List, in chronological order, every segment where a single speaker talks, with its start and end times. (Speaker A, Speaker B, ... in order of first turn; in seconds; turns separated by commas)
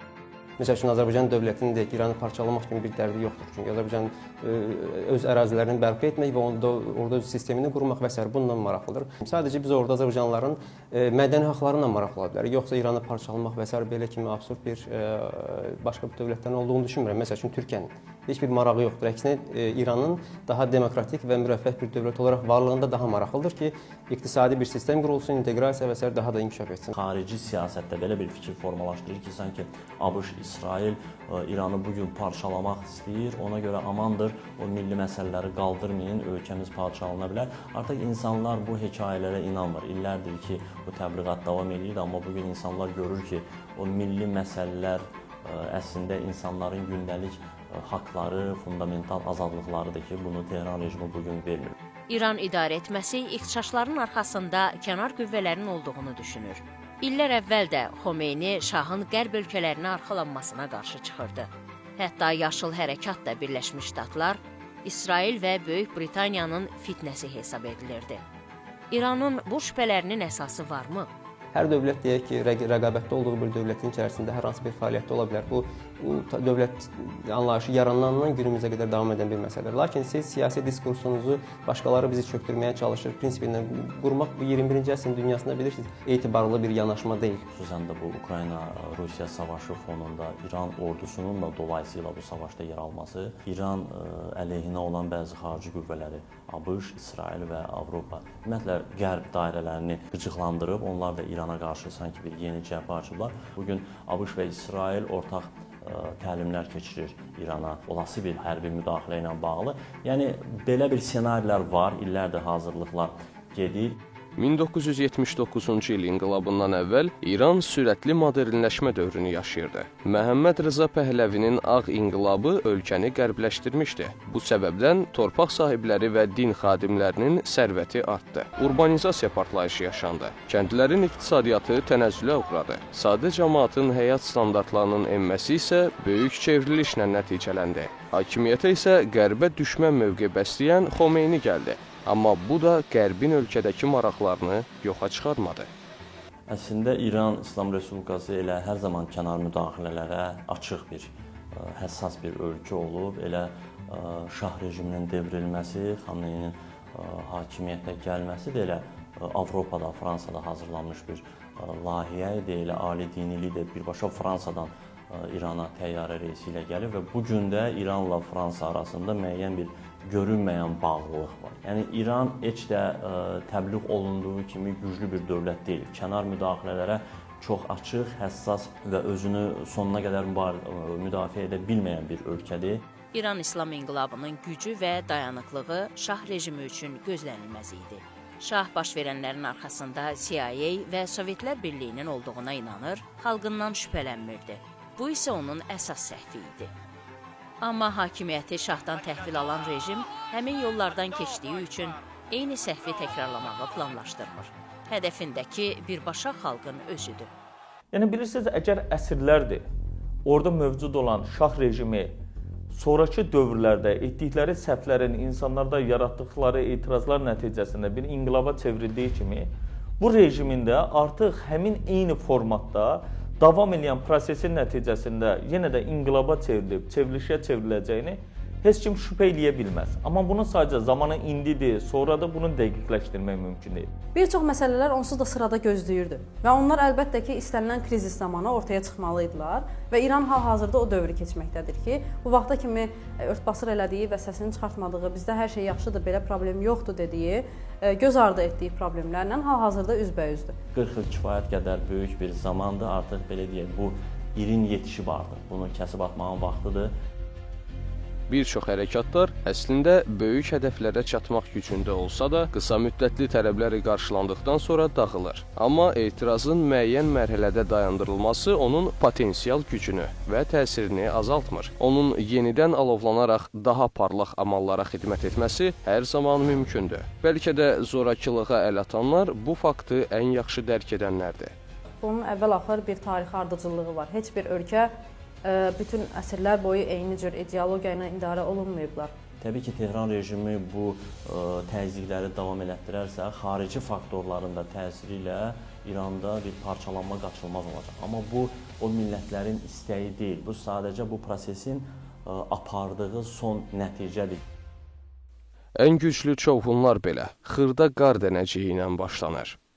Speaker A: 0.6-26.9, Speaker B: 26.9-51.7, Speaker C: 52.1-68.2, Speaker C: 68.9-71.1, Speaker A: 71.5-87.5, Speaker B: 87.5-114.0, Speaker D: 114.4-145.7, Speaker B: 146.5-182.8, Speaker C: 183.1-196.7, Speaker C: 197.6-207.3, Speaker E: 207.9-209.6, Speaker E: 210.2-212.1, Speaker E: 212.7-233.9, Speaker F: 234.1-250.6, Speaker B: 250.7-256.9, Speaker D: 258.3-281.5, Speaker F: 282.0-284.9, Speaker F: 285.4-289.1, Speaker B: 289.4-304.4, Speaker D: 305.8-309.6